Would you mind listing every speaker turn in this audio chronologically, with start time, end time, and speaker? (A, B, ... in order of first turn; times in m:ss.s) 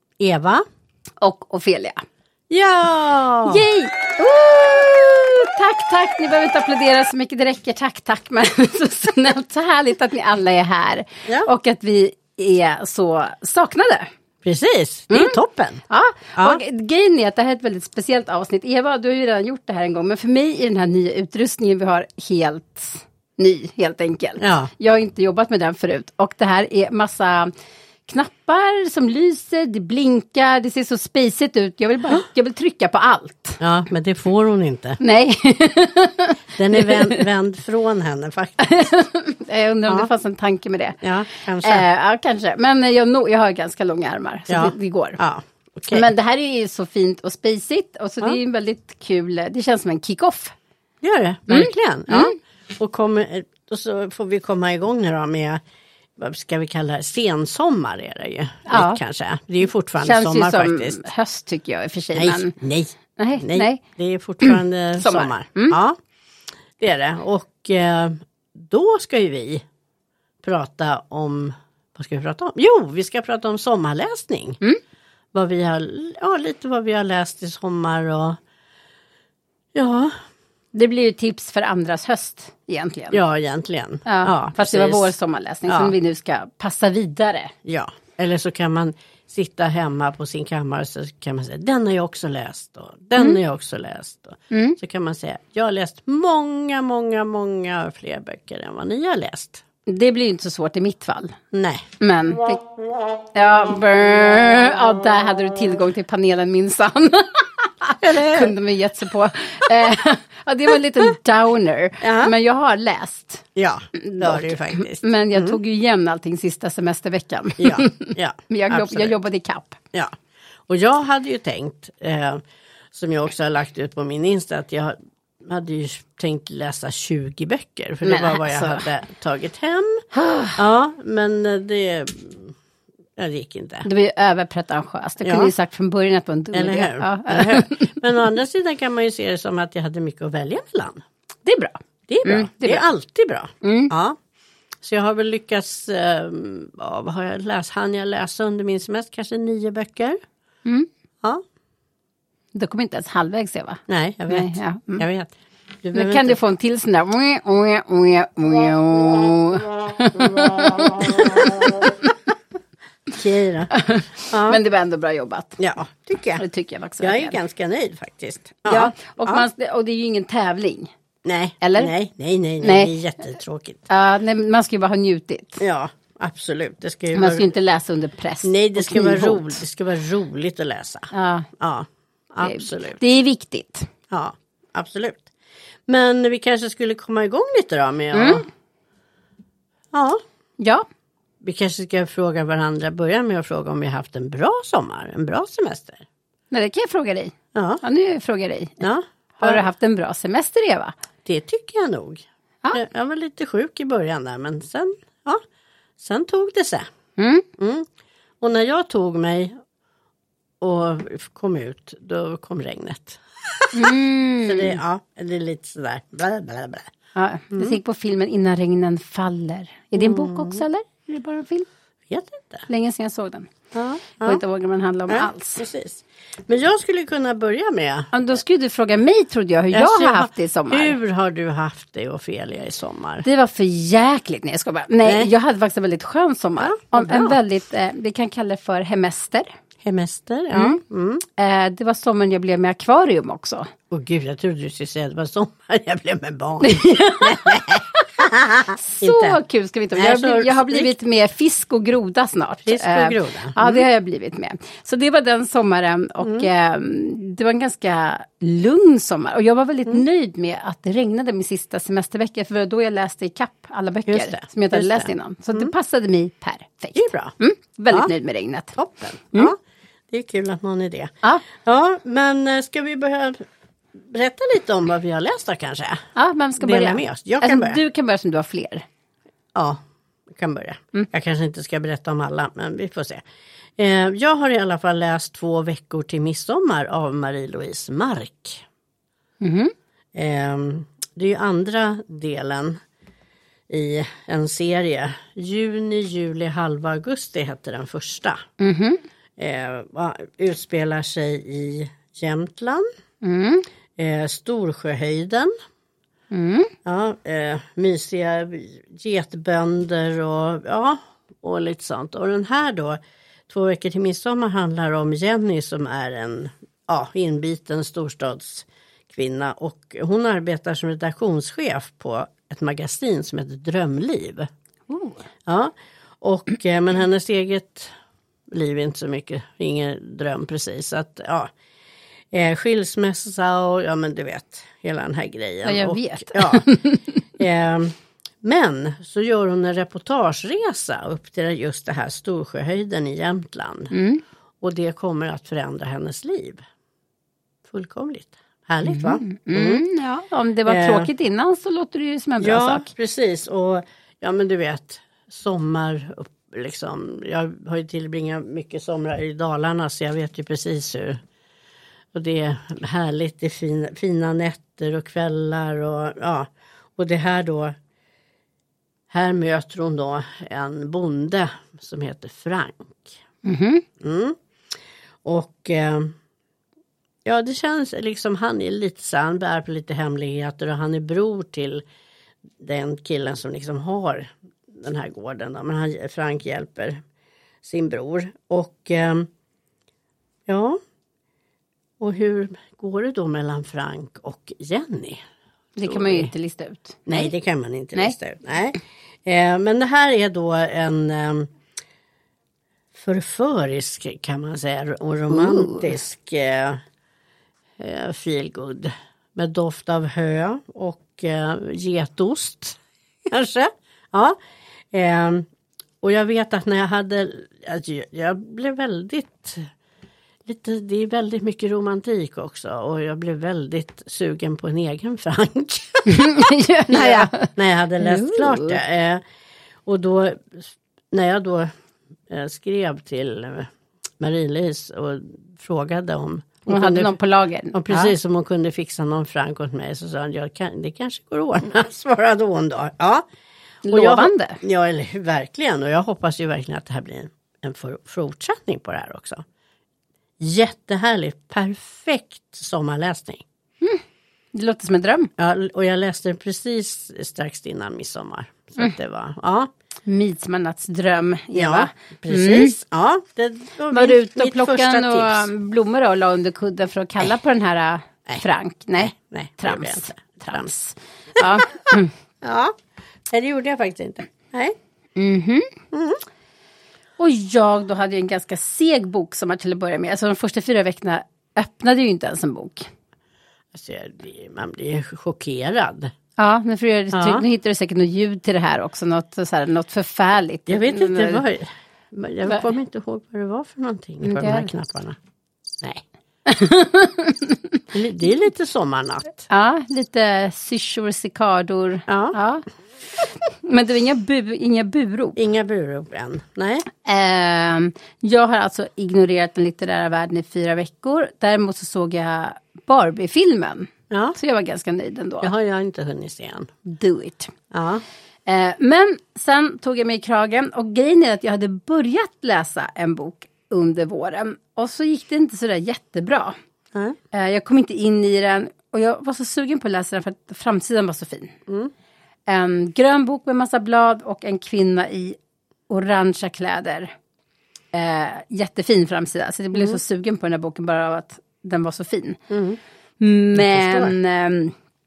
0:00.2-0:00.6 A
0:01.2-0:02.0 B
0:02.5-0:03.6 A
0:03.5-0:14.1 B
0:14.4-0:15.8 A
0:15.1-0:27.5 B
0:24.4-0:24.7 A
0:28.1-0:33.6 B
0:33.6-0:35.0 A
0:35.0-0:37.3 B
0:36.6-0:38.8 A
0:38.6-0:41.0 B
0:41.0-0:41.9 A
0:41.6-0:45.2 B
0:44.5-0:46.1 A
0:45.9-0:50.6 B
0:51.0-0:55.6 A
0:51.5-0:52.4 B
0:56.2-1:01.0 A
0:58.7-0:59.0 B
1:00.0-1:02.6 B
1:02.1-1:06.0 A
1:03.2-1:03.8 B
1:04.4-1:05.8 B
1:06.8-1:09.6 A
1:10.4-1:14.6 A
1:15.3-1:18.4 A
1:19.7-1:20.2 A
1:20.8-1:23.2 B
1:23.1-1:25.1 A
1:24.1-1:27.5 B
1:25.7-1:26.0 A
1:27.6-1:39.6 A
1:34.5-1:34.8 B
1:39.9-1:41.4 B
1:41.5-1:41.9 A
1:42.0-1:42.7 B
1:43.3-1:59.8 B
1:48.0-1:48.5 A
1:52.0-1:52.3 A
1:53.6-1:55.6 A
1:57.6-1:59.2 A
1:59.9-2:10.1 A
2:08.0-2:08.9 B
2:10.1-2:10.6 B
2:10.6-2:12.6 A
2:13.2-2:13.9 A
2:13.8-2:18.0 B
2:15.2-2:15.5 A
2:16.5-2:21.0 A
2:21.4-2:22.8 B
2:22.1-2:24.2 A
2:23.6-2:23.9 B
2:24.8-2:30.2 A
2:32.6-2:35.1 B
2:33.9-2:35.3 A
2:35.8-2:36.4 A
2:35.9-2:41.9 B
2:41.1-2:41.5 A
2:43.1-2:43.7 A
2:43.7-2:45.6 B
2:44.3-2:44.6 A
2:45.6-2:46.4 A
2:46.4-2:47.4 B
2:47.0-2:49.4 A
2:48.7-2:50.9 B
2:51.2-2:53.9 A
2:51.6-2:51.9 B
2:52.6-2:52.9 B
2:53.9-2:55.6 B
2:55.6-2:57.5 A
2:57.1-2:59.6 B
2:58.4-3:03.0 A
3:01.1-3:01.5 B
3:02.4-3:03.9 B
3:04.1-3:05.3 A
3:05.9-3:08.5 A
3:08.1-3:08.5 B
3:09.9-3:10.2 A
3:10.6-3:10.9 B
3:11.4-3:16.0 A
3:16.5-3:18.8 B
3:17.5-3:17.8 A
3:18.8-3:19.6 A
3:19.4-3:20.9 B
3:21.2-3:25.4 A
3:26.0-3:26.9 A
3:27.2-3:27.5 B
3:27.6-3:27.9 A
3:28.4-3:29.6 A
3:30.6-3:36.9 A
3:33.7-3:34.8 B
3:37.2-3:41.7 B
3:37.5-3:37.8 A
3:40.0-3:40.6 A
3:42.1-3:42.6 A
3:42.7-3:43.5 B
3:43.7-3:44.4 A
3:44.2-3:45.7 B
3:45.1-3:48.1 A
3:48.1-3:51.0 B
3:49.7-3:53.3 A
3:53.2-3:59.5 B
3:55.0-3:55.3 A
3:56.6-3:57.4 A
3:59.8-4:01.2 A
4:00.5-4:00.8 B
4:01.4-4:03.7 B
4:03.9-4:09.4 A
4:06.6-4:28.8 B
4:10.0-4:10.9 A
4:12.6-4:13.9 A
4:16.2-4:16.5 A
4:24.1-4:25.7 A
4:26.9-4:27.4 A
4:28.8-4:29.6 A
4:30.1-4:33.4 A
4:34.0-4:36.0 A
4:36.2-4:38.8 B
4:36.6-4:37.8 A
4:40.3-4:43.2 A
4:43.8-4:48.6 A
4:49.4-4:49.7 B
4:50.1-4:52.8 A
4:53.7-4:58.4 A
4:58.6-4:59.0 B
4:59.4-5:02.9 A
5:03.2-5:03.7 B
5:04.0-5:05.5 A
5:06.3-5:06.7 B
5:06.9-5:24.5 A
5:24.9-5:25.2 B
5:25.5-5:27.9 A
5:28.5-5:31.5 A
5:32.3-5:36.7 A
5:35.6-5:37.2 B
5:37.4-5:43.9 A
5:43.9-5:44.2 B
5:44.6-5:46.6 A
5:47.7-5:49.8 A
5:48.8-5:52.9 B
5:50.7-5:51.1 A
5:52.4-6:01.2 A
6:02.1-6:07.8 A
6:09.1-6:13.2 A
6:13.4-6:13.8 B
6:14.0-6:14.4 A
6:15.2-6:16.1 A
6:17.2-6:21.8 A
6:22.6-6:27.0 A
6:27.6-6:29.3 A
6:30.5-6:30.8 A
6:32.0-6:35.2 A
6:35.8-6:37.3 B
6:35.8-6:36.3 A
6:37.1-6:41.5 A
6:42.9-6:46.8 A
6:45.3-6:46.0 B
6:47.8-6:54.4 A
6:54.9-6:55.5 A
6:56.0-6:59.7 A
7:00.5-7:09.2 A
7:06.1-7:07.5 B
7:08.0-7:08.8 B
7:09.8-7:11.7 A
7:12.3-7:17.2 A
7:16.7-7:18.1 B
7:17.7-7:23.3 A
7:23.8-7:29.4 A
7:23.8-7:24.6 B
7:30.4-7:33.4 A
7:34.5-7:35.3 B
7:35.4-7:39.7 A
7:40.1-7:42.8 B
7:41.6-7:45.5 A
7:43.9-7:52.1 B
7:49.0-7:50.7 A
7:51.4-7:51.7 A
7:52.4-7:52.7 A
7:53.3-7:54.8 A
7:55.2-7:55.7 B
7:55.9-7:56.2 A
7:57.2-8:02.9 B
8:03.7-8:06.1 A
8:06.4-8:11.4 B
8:07.1-8:07.4 A
8:10.7-8:15.2 A
8:14.2-8:14.7 B
8:16.5-8:17.8 B
8:17.9-8:19.4 A
8:19.5-8:22.6 B
8:22.1-8:22.4 A
8:23.5-8:25.4 B
8:25.4-8:26.9 A
8:27.0-8:35.5 B
8:34.1-8:34.4 A
8:35.4-8:36.7 A
8:36.8-8:37.5 B
8:37.7-8:38.0 A
8:38.5-8:46.6 B
8:47.3-8:51.6 B
8:52.5-8:55.4 B
8:55.9-8:57.1 B
8:57.9-9:02.4 B
8:59.7-9:00.0 A
9:02.5-9:02.8 A
9:03.2-9:04.8 B
9:03.5-9:04.2 A